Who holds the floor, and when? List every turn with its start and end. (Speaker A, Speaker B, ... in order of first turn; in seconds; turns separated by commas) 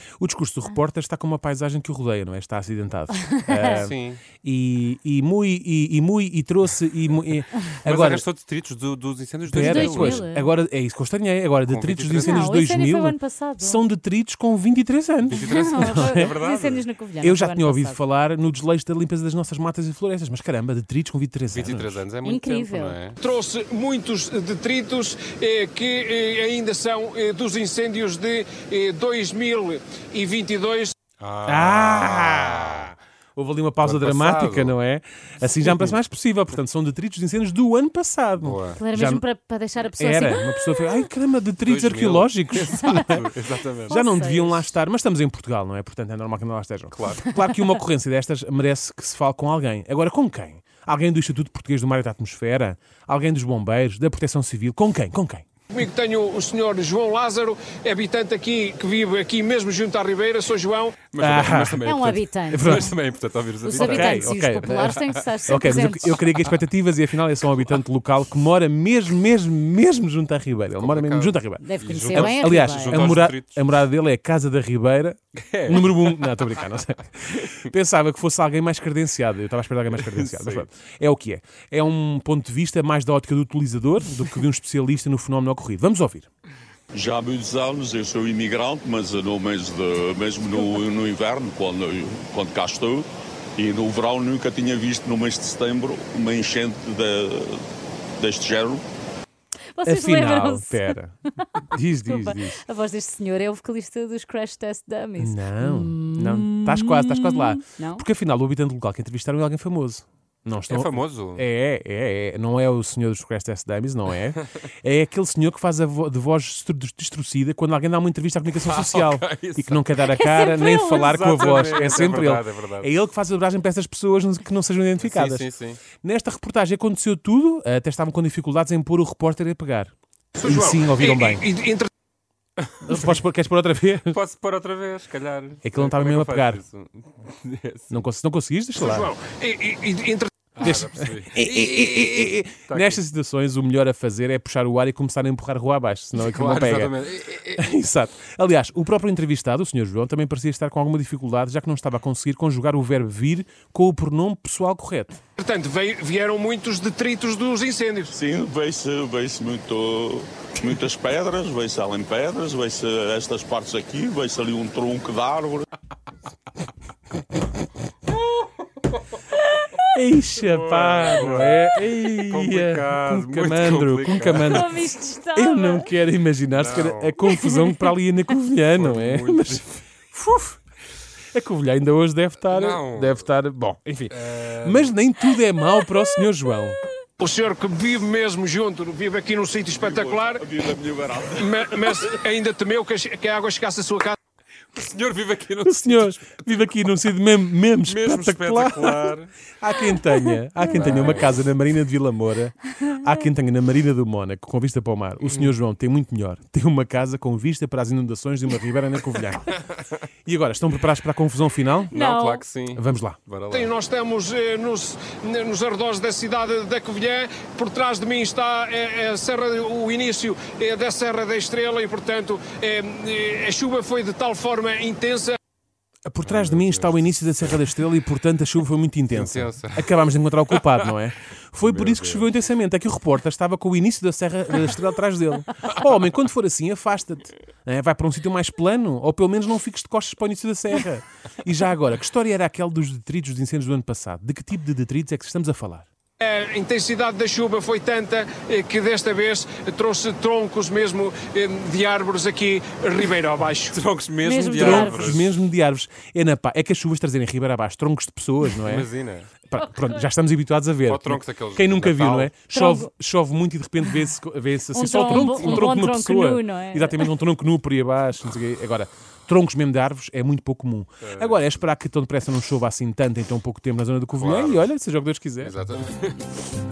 Speaker A: 0.2-8.2, Speaker B: 3.6-4.2, Speaker B: 7.8-10.3, Speaker A: 9.5-16.4, Speaker C: 9.5-10.5, Speaker B: 11.7-12.5, Speaker C: 12.2-13.8, Speaker B: 15.2-16.9, Speaker C: 15.3-18.0, Speaker A: 17.2-22.0, Speaker B: 21.5-23.2, Speaker C: 22.2-23.0, Speaker D: 23.2-30.9, Speaker B: 31.2-32.9, Speaker A: 31.5-39.3, Speaker B: 33.8-34.8, Speaker B: 35.6-36.0, Speaker B: 38.4-38.8, Speaker C: 38.8-40.5, Speaker A: 39.8-43.3, Speaker B: 41.6-44.0, Speaker A: 43.9-55.5, Speaker C: 43.9-44.7, Speaker B: 46.9-47.3, Speaker D: 55.7-61.0, Speaker B: 61.1-65.2, Speaker A: 61.2-61.9, Speaker C: 61.8-62.9, Speaker A: 62.5-63.0, Speaker C: 63.6-66.2, Speaker A: 63.7-86.3, Speaker B: 70.8-73.6, Speaker C: 71.6-73.2, Speaker B: 75.4-76.5, Speaker B: 80.0-80.7, Speaker E: 86.9-98.8, Speaker C: 99.7-101.0, Speaker A: 99.8-101.2, Speaker C: 101.6-108.0, Speaker A: 101.7-102.6, Speaker A: 105.2-129.9, Speaker B: 110.7-111.5, Speaker B: 118.6-119.8, Speaker C: 120.0-122.0, Speaker B: 120.8-122.9, Speaker B: 125.0-125.8, Speaker D: 130.4-131.9, Speaker A: 130.4-131.4, Speaker B: 132.6-132.9, Speaker A: 132.8-134.2, Speaker B: 134.1-138.1, Speaker A: 135.6-136.6, Speaker A: 137.9-139.1, Speaker D: 138.8-140.5, Speaker B: 140.6-142.1, Speaker A: 140.6-155.2, Speaker B: 142.7-143.0, Speaker B: 146.1-147.7, Speaker D: 155.4-158.2, Speaker E: 158.1-165.7, Speaker A: 169.9-174.8, Speaker B: 170.4-174.8, Speaker C: 174.3-175.9, Speaker A: 175.3-180.6, Speaker B: 176.5-177.5, Speaker B: 178.7-179.7, Speaker A: 181.3-186.8, Speaker B: 182.4-183.3, Speaker B: 184.1-184.9, Speaker D: 187.2-190.5, Speaker E: 189.7-192.1, Speaker D: 191.3-194.2, Speaker B: 194.7-196.3, Speaker A: 195.6-209.6, Speaker B: 197.8-199.3, Speaker B: 200.7-201.4, Speaker A: 210.3-212.0, Speaker B: 211.9-213.7, Speaker C: 211.9-212.4, Speaker A: 212.7-213.2, Speaker D: 213.5-225.4, Speaker A: 226.1-245.9, Speaker B: 226.2-227.1, Speaker B: 229.1-230.9, Speaker B: 231.6-232.3, Speaker D: 246.2-253.8, Speaker B: 253.7-255.4, Speaker C: 254.2-255.2, Speaker A: 254.5-258.9, Speaker B: 258.6-259.3, Speaker A: 259.5-275.5, Speaker B: 260.9-262.3, Speaker C: 262.5-262.9, Speaker C: 264.7-267.1, Speaker B: 271.0-271.6, Speaker B: 274.2-274.7, Speaker B: 275.4-276.2